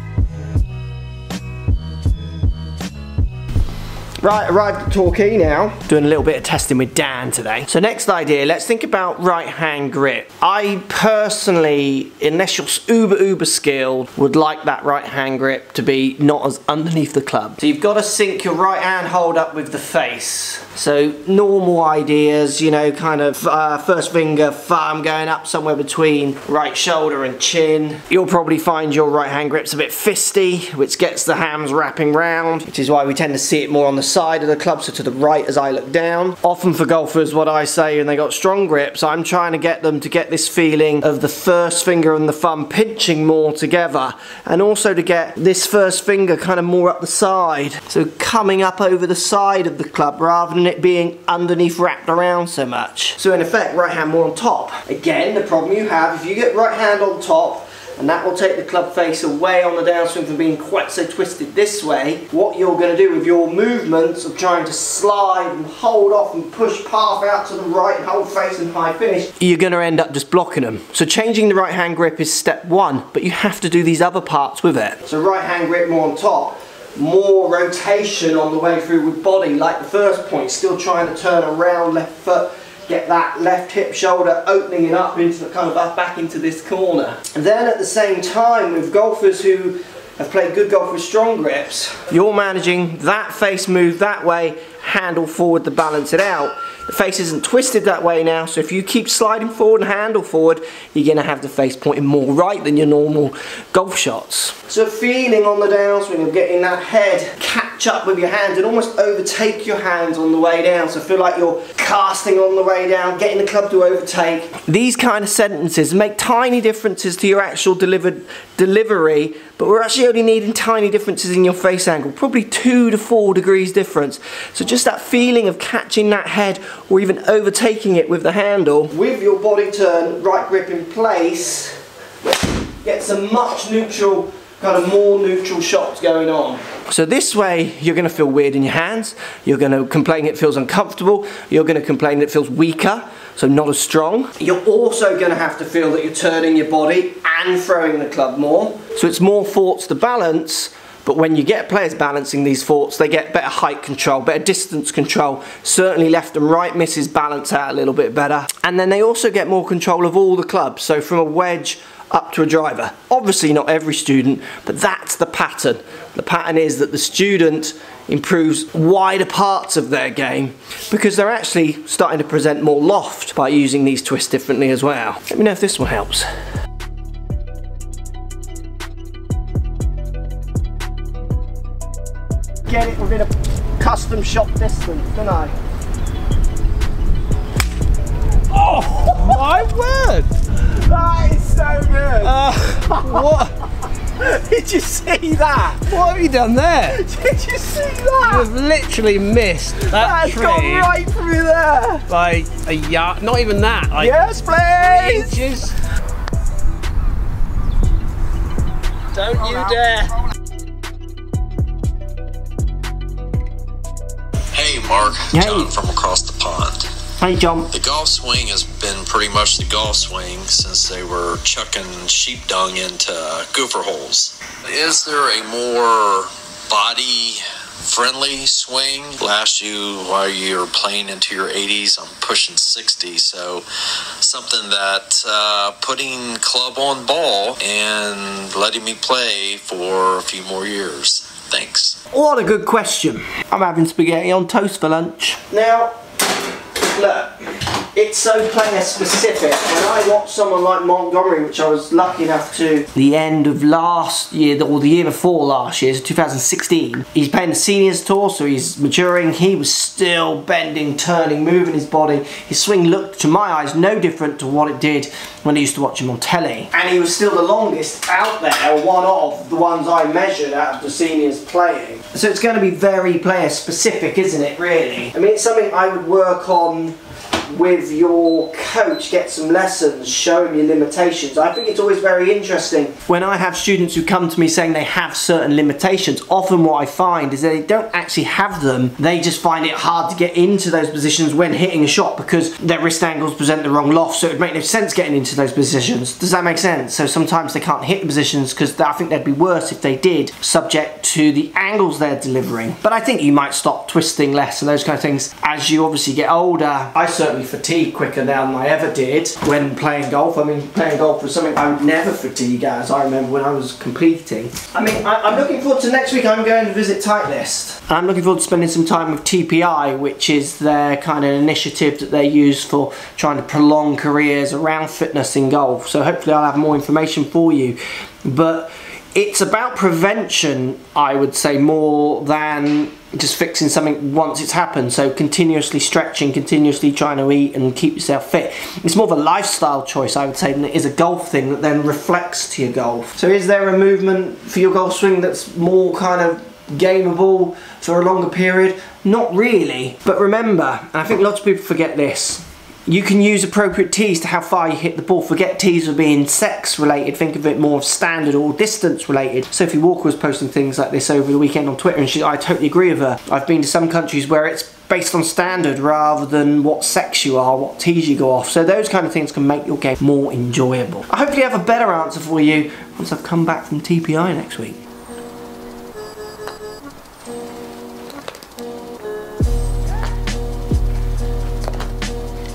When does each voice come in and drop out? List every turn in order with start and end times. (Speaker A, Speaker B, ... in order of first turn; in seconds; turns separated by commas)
Speaker A: 4.2-131.8, Speaker A: 132.8-176.3, Speaker A: 182.7-185.5, Speaker B: 188.5-190.3, Speaker A: 190.6-192.3, Speaker B: 192.2-193.5, Speaker A: 192.9-193.3, Speaker A: 194.2-195.9, Speaker B: 195.8-197.0, Speaker A: 196.9-198.5, Speaker B: 198.2-200.9, Speaker A: 199.9-202.1, Speaker B: 202.1-204.2, Speaker A: 203.9-205.4, Speaker B: 204.8-205.7, Speaker A: 209.2-209.8, Speaker B: 209.3-210.0, Speaker C: 214.5-216.9, Speaker A: 215.3-215.7, Speaker A: 217.2-217.7, Speaker C: 217.7-233.6, Speaker C: 234.2-242.0, Speaker A: 242.1-245.9, Speaker A: 246.8-277.0, Speaker A: 277.5-374.8